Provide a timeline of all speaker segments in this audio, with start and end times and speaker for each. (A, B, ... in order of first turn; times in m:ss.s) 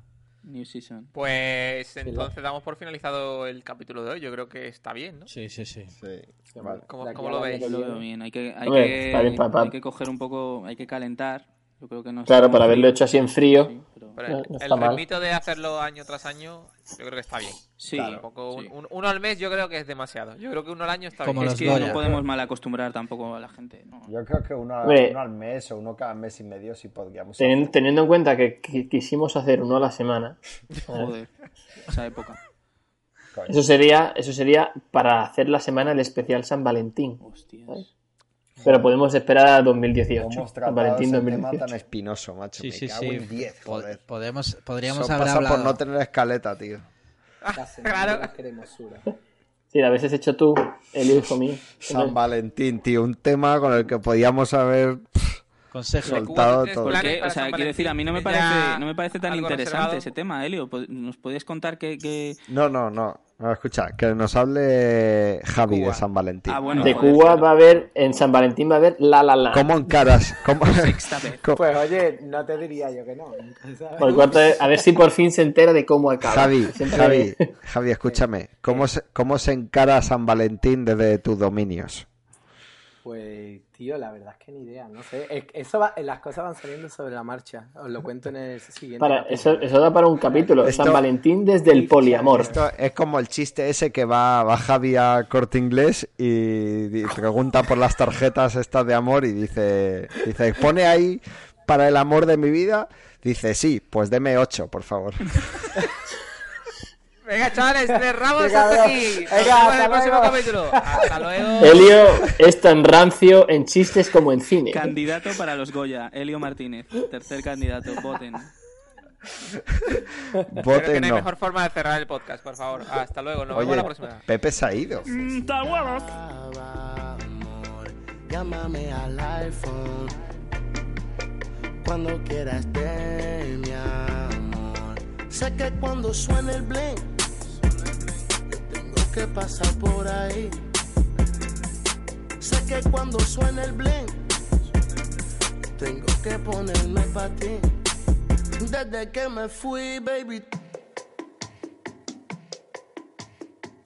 0:00.4-0:01.1 A
0:01.1-0:05.3 B
0:02.0-0:02.3 C
0:05.3-0:05.9 D
0:06.0-0:06.8 E
0:06.5-0:08.1 C
0:06.9-0:07.8 B
0:07.6-0:13.0 A
0:08.6-0:09.7 F
0:12.3-0:13.7 F
0:13.5-0:14.2 A
0:14.2-0:22.0 B
0:14.3-0:15.0 F
0:17.8-0:18.7 A
0:17.9-0:18.2 E
0:21.2-0:22.1 D
0:21.4-0:24.1 A
0:24.1-0:27.8 E
0:24.8-0:25.2 F
0:27.4-0:30.4 F
0:30.8-0:31.0 B
0:30.9-0:31.3 A
0:31.9-0:32.4 A
0:33.5-0:37.8 F
0:37.2-0:37.9 A
0:38.6-0:41.7 F
0:40.2-0:44.0 E
0:42.6-0:45.8 D
0:44.8-0:46.8 E
0:47.4-0:48.3 B
0:47.6-0:49.0 C
0:49.7-0:52.2 F
0:51.8-0:55.4 E
0:55.7-0:56.3 D
0:56.0-0:57.0 E
0:56.0-1:00.1 B
0:56.8-1:02.4 A
1:02.5-1:07.2 E
1:05.6-1:06.1 B
1:06.5-1:07.5 A
1:06.8-1:09.8 F
1:09.5-1:11.6 E
1:10.7-1:11.4 A
1:11.6-1:14.9 C
1:14.0-1:17.4 F
1:16.2-1:22.1 E
1:18.1-1:18.9 C
1:23.0-1:31.0 C
1:29.0-1:32.5 F
1:30.6-1:31.0 E
1:31.6-1:32.6 C
1:32.4-1:45.8 E
1:47.3-1:52.0 B
1:48.4-1:51.2 C
1:51.6-1:54.9 F
1:54.7-1:58.5 A
1:59.8-2:01.3 E
2:00.6-2:04.2 B
2:03.5-2:05.2 E
2:05.1-2:06.1 A
2:05.7-2:10.2 G
2:11.8-2:20.6 G
2:22.4-2:24.2 G
2:25.8-2:27.7 G
2:28.6-2:30.5 G